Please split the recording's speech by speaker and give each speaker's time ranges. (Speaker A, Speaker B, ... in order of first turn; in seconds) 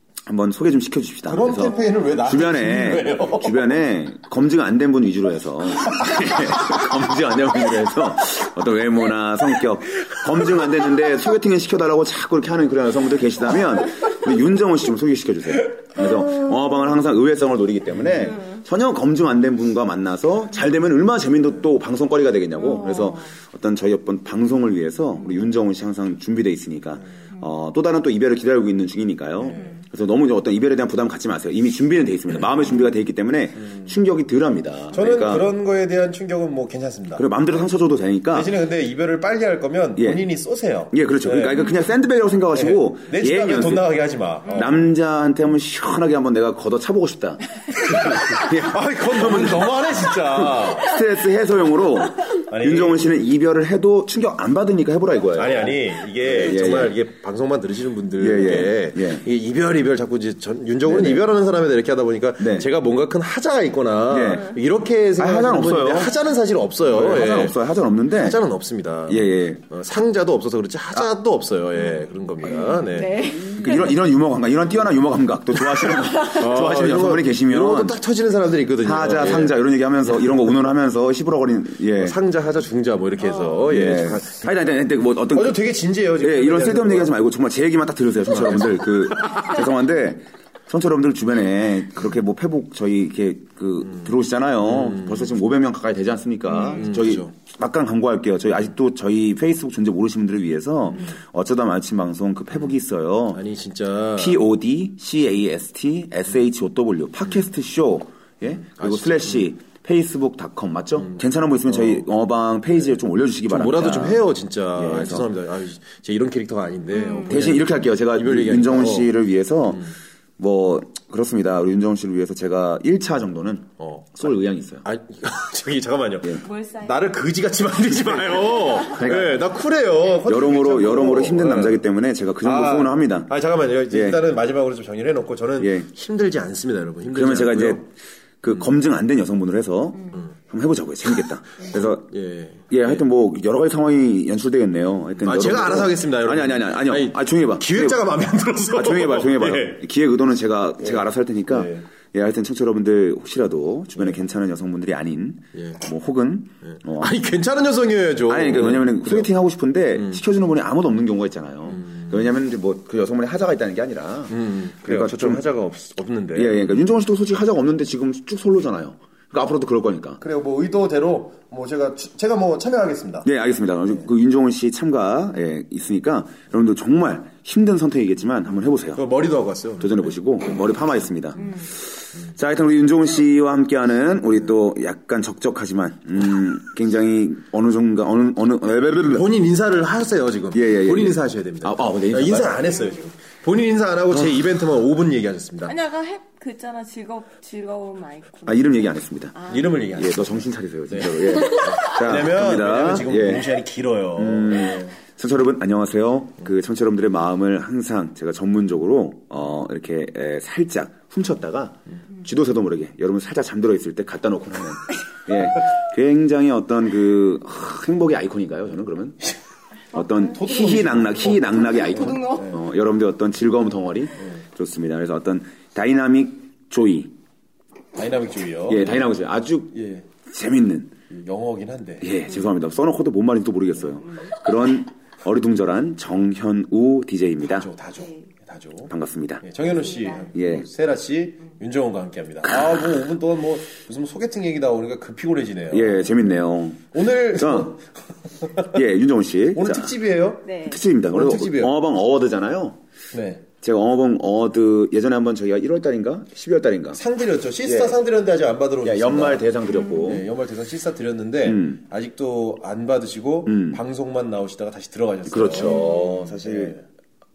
Speaker A: 0.3-35.5, 37.2-38.5, 40.0-40.2, 40.9-43.9, 44.5-57.0, 58.2-59.2, 60.9-61.3, 62.4-62.7, 64.1-64.5, 65.2-66.2, 66.8-68.4, 69.1-69.6, 73.4-78.0, 78.8-82.2, 83.6-85.6, 86.2-103.4, 104.2-115.3, 117.3-124.8, 128.8-129.4, 130.2-133.3, 133.9-134.2, 135.6-135.9, 137.1-137.9, 138.4-142.1, 142.7-148.0, 148.7-157.2, 158.3-165.4, 166.3-170.2, 173.2-179.1, 179.8-189.3, 190.5-192.7, 198.5-199.4, 199.9-203.5, 204.2-219.2, 219.9-227.1, 228.7-230.9, 232.0-237.7, 238.9-239.4, 240.3-240.7, 242.5-242.8, 245.7-247.8, 248.7-249.9, 250.6-252.8, 253.6-257.0, 257.6-258.0, 258.8-260.3, 261.4-261.8, 263.5-263.8, 265.3-266.8
Speaker B: 1.3-3.8, 6.0-6.3, 29.4-29.8, 34.9-37.6, 38.3-41.7, 42.5-44.8, 47.9-50.9, 52.5-53.0, 55.3-67.6, 68.2-73.2, 76.2-79.6, 82.0-84.4, 85.3-87.2, 88.3-88.9, 94.7-95.2, 96.8-97.3, 103.3-104.4, 108.5-109.5, 111.0-112.0, 113.5-119.1, 123.8-124.2, 124.8-131.8, 132.4-137.8, 141.7-143.0, 145.2-149.8, 150.8-151.9, 155.6-155.8, 156.7-159.3, 161.8-162.1, 164.3-166.6, 170.2-173.3, 178.9-180.1, 189.1-195.8, 199.5-205.0, 220.2-222.6, 227.9-229.1, 229.7-230.1, 231.1-232.1, 237.4-246.2, 246.9-248.8, 249.6-250.5, 251.1-251.7, 253.1-253.4, 256.9-259.5, 260.0-266.9
Speaker C: 22.6-23.3, 72.4-74.0, 75.7-76.4, 83.2-83.5, 96.5-96.8, 116.9-117.3, 126.4-127.0, 195.7-199.8, 219.9-220.8, 221.4-222.5, 239.6-240.3, 250.4-250.8, 259.9-260.1, 265.6-266.2